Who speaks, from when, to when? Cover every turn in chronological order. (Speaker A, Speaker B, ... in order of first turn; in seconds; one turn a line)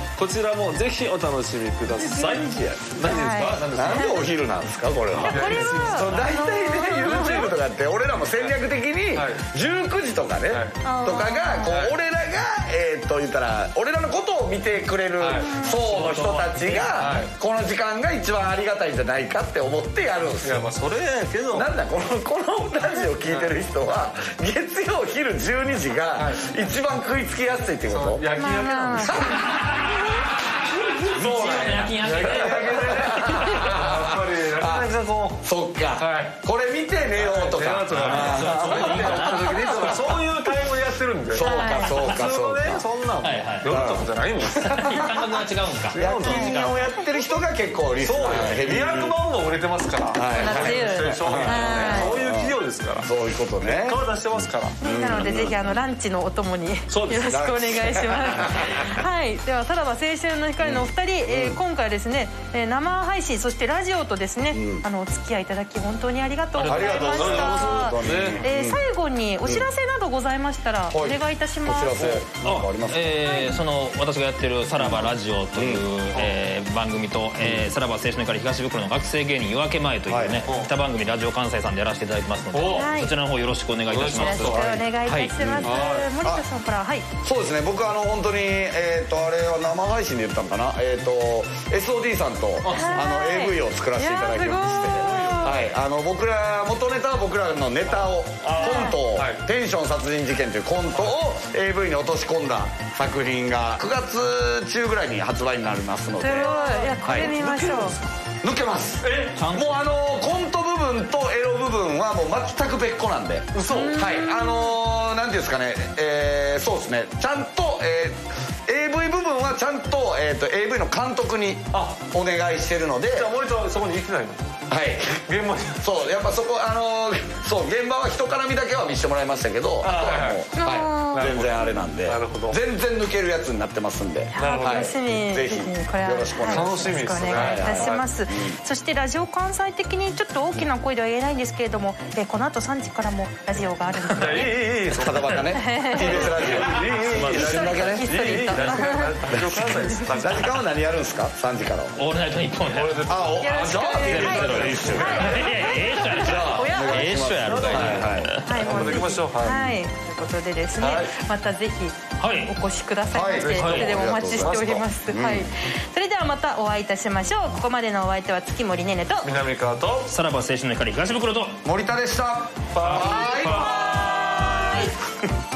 Speaker A: 0.2-4.3
Speaker B: 2.0-20.7
Speaker C: 3.0-4.2
Speaker C: 5.2-7.5
Speaker A: 5.2-6.3
Speaker A: 7.0-7.4
Speaker A: 9.1-9.4
Speaker A: 10.5-10.8
Speaker C: 10.8-11.8
Speaker A: 11.7-11.9
Speaker A: 15.2-17.3
Speaker C: 15.5-15.7
Speaker D: 15.8-17.0
Speaker A: 20.4-21.7
Speaker B: 21.5-28.2
Speaker A: 23.3-23.5
Speaker A: 26.1-26.5
Speaker A: 27.9-29.5
Speaker C: 28.4-29.6
Speaker B: 28.9-30.0
Speaker D: 29.4-33.7
Speaker B: 30.7-34.9
Speaker A: 31.9-35.4
Speaker B: 35.4-40.3
Speaker A: 36.0-36.3
Speaker A: 37.1-44.8
Speaker D: 37.9-40.1
Speaker B: 41.3-42.8
Speaker C: 41.4-42.0
Speaker D: 43.2-43.8
Speaker B: 43.7-45.4
Speaker D: 44.6-46.9
Speaker A: 45.9-46.6
Speaker B: 46.0-49.1
Speaker C: 46.2-46.7
Speaker A: 48.0-53.1
Speaker B: 50.1-54.0
Speaker C: 50.3-52.2
Speaker A: 53.6-54.8
Speaker C: 54.8-72.2
Speaker B: 54.8-55.7
Speaker A: 56.9-57.4
Speaker B: 57.3-59.0
Speaker B: 60.6-61.6
Speaker B: 64.5-64.8
Speaker D: 66.5-67.4
Speaker B: 66.7-68.8
Speaker A: 67.0-68.4
Speaker B: 70.9-73.6
Speaker D: 72.4-85.3
Speaker B: 74.8-75.8
Speaker A: 76.1-76.4
Speaker B: 77.4-77.7
Speaker B: 80.1-80.5
Speaker A: 80.5-80.7
Speaker A: 82.5-82.9
Speaker C: 82.6-83.1
Speaker A: 83.9-84.8
Speaker C: 84.1-87.1
Speaker B: 85.4-86.4
Speaker A: 85.6-86.1
Speaker B: 87.2-107.3
Speaker A: 92.6-93.0
Speaker C: 92.7-95.7
Speaker A: 94.8-95.5
Speaker A: 98.4-99.4
Speaker C: 98.6-99.0
Speaker C: 106.2-108.0
Speaker A: 106.4-108.0
Speaker B: 108.4-123.3
Speaker A: 109.0-109.4
Speaker D: 109.3-109.8
Speaker A: 113.5-114.0
Speaker C: 113.7-114.8
Speaker A: 123.1-124.5
Speaker B: 124.7-125.2
Speaker A: 125.1-125.8
Speaker B: 125.8-138.6
Speaker A: 129.8-130.5
Speaker C: 130.5-131.2
Speaker A: 131.1-132.6
Speaker C: 134.3-144.6
Speaker A: 134.3-134.9
Speaker A: 136.5-138.1
Speaker A: 144.1-150.6
Speaker B: 144.9-148.8
Speaker C: 145.5-146.4
Speaker C: 147.2-149.3
Speaker B: 149.3-152.0
Speaker D: 152.0-153.1
Speaker A: 152.7-153.4
Speaker B: 153.0-155.5
Speaker C: 153.4-157.2
Speaker D: 154.0-158.7
Speaker A: 154.2-155.4
Speaker B: 156.1-159.0
Speaker A: 157.3-159.7
Speaker C: 158.4-169.3
Speaker A: 160.8-161.1
Speaker D: 162.2-162.5
Speaker B: 163.1-165.5
Speaker A: 163.4-164.8
Speaker D: 163.6-163.9
Speaker A: 169.2-170.1
Speaker D: 170.1-171.6
Speaker B: 171.6-174.9
Speaker A: 172.7-174.6
Speaker C: 173.0-174.9